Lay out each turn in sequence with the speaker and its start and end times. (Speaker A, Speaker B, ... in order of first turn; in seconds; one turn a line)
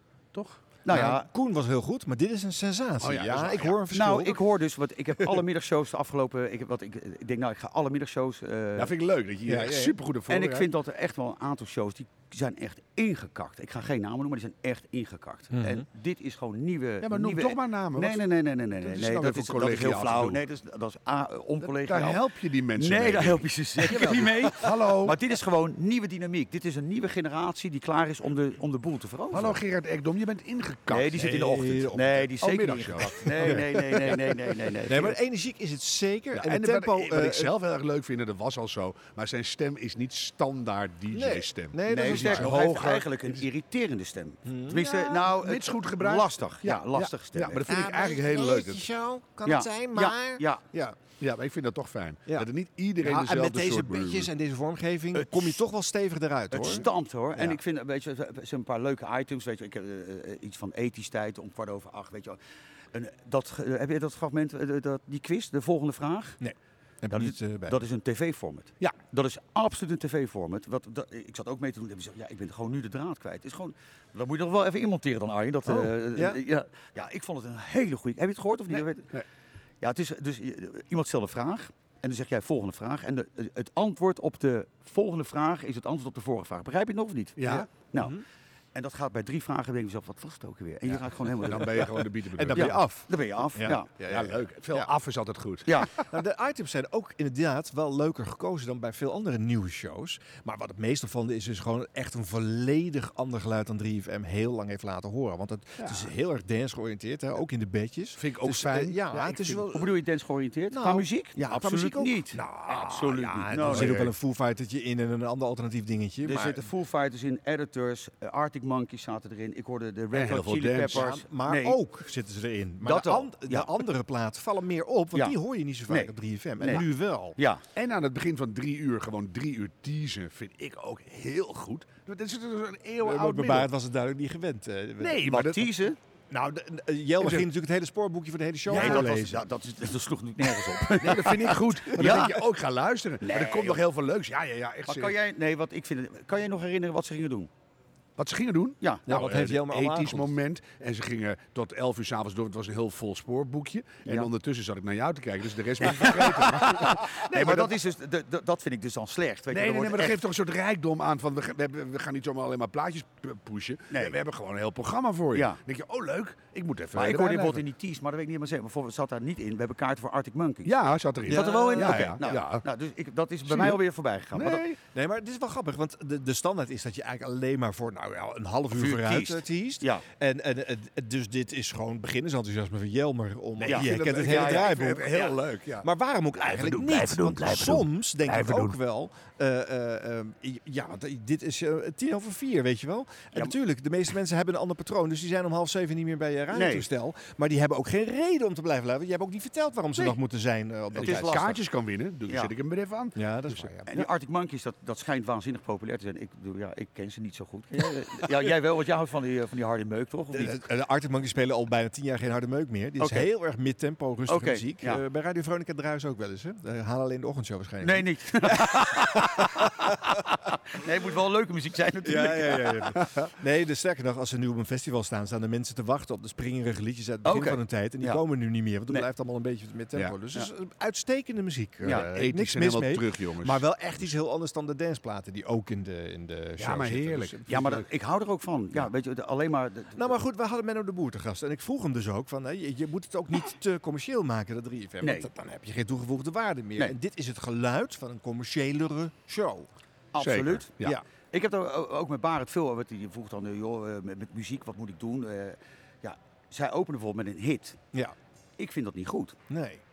Speaker A: 0.3-0.6
Speaker B: 0.8-1.3
Speaker C: 0.9-4.4
Speaker A: 3.0-3.8
Speaker B: 3.9-8.9
Speaker A: 8.8-10.7
Speaker C: 9.4-10.0
Speaker B: 10.3-22.2
Speaker C: 15.5-15.8
Speaker A: 17.0-18.2
Speaker A: 18.8-20.4
Speaker A: 21.6-25.1
Speaker B: 22.8-29.6
Speaker A: 29.3-31.8
Speaker B: 30.9-35.2
Speaker C: 31.2-32.3
Speaker A: 32.4-33.6
Speaker C: 33.3-34.3
Speaker C: 34.9-37.5
Speaker A: 36.3-43.3
Speaker C: 41.1-42.6
Speaker B: 41.9-47.7
Speaker C: 44.5-45.2
Speaker A: 45.2-48.8
Speaker C: 47.6-51.0
Speaker B: 49.4-50.6
Speaker A: 51.2-54.3
Speaker C: 53.0-56.9
Speaker B: 56.5-62.4
Speaker B: 62.9-66.4
Speaker C: 66.4-67.8
Speaker B: 67.1-79.2
Speaker C: 75.7-76.4
Speaker B: 79.8-88.2
Speaker A: 87.4-87.7
Speaker C: 88.0-88.2
Speaker B: 88.7-92.0
Speaker A: 91.4-92.8
Speaker C: 92.3-94.9
Speaker B: 92.5-93.9
Speaker A: 94.1-95.9
Speaker B: 95.7-95.9
Speaker C: 96.1-109.9
Speaker A: 105.8-106.1
Speaker A: 108.2-109.6
Speaker B: 109.7-114.1
Speaker C: 110.7-116.7
Speaker A: 112.3-113.0
Speaker A: 113.6-114.1
Speaker B: 116.2-121.8
Speaker A: 120.1-121.0
Speaker C: 120.9-127.4
Speaker B: 122.8-123.7
Speaker B: 125.9-126.8
Speaker B: 127.4-127.6
Speaker A: 127.7-133.7
Speaker C: 133.0-135.6
Speaker A: 135.0-135.6
Speaker B: 135.4-136.0
Speaker C: 136.3-139.4
Speaker A: 138.7-139.1
Speaker B: 138.7-142.4
Speaker A: 141.0-145.1
Speaker B: 143.2-143.8
Speaker B: 144.8-147.5
Speaker A: 148.2-157.8
Speaker B: 148.8-149.3
Speaker C: 149.1-150.3
Speaker B: 155.8-160.2
Speaker A: 159.5-167.6
Speaker B: 163.9-164.2
Speaker B: 165.3-165.6
Speaker B: 166.9-170.7
Speaker A: 170.6-172.6
Speaker C: 171.3-172.1
Speaker B: 171.3-174.6
Speaker A: 173.4-173.8
Speaker A: 174.3-174.8
Speaker C: 174.9-185.1
Speaker B: 178.7-180.0
Speaker A: 183.6-185.8
Speaker B: 183.6-185.3
Speaker C: 185.8-201.6
Speaker A: 186.4-187.8
Speaker A: 188.3-188.7
Speaker B: 196.5-196.9
Speaker A: 200.9-203.7
Speaker B: 201.0-201.5
Speaker C: 203.2-204.1
Speaker B: 203.9-210.6
Speaker C: 210.3-219.4
Speaker B: 213.0-213.3
Speaker B: 214.3-215.0
Speaker B: 217.8-219.7
Speaker B: 220.8-222.8
Speaker C: 222.0-237.4
Speaker B: 227.2-228.2
Speaker B: 231.8-232.1
Speaker A: 231.9-233.6
Speaker A: 236.6-237.8
Speaker B: 237.4-240.2
Speaker C: 239.9-249.7
Speaker B: 245.0-245.3
Speaker B: 250.1-250.8
Speaker A: 250.2-251.0
Speaker B: 251.3-257.8
Speaker B: 258.6-259.4
Speaker C: 259.5-259.8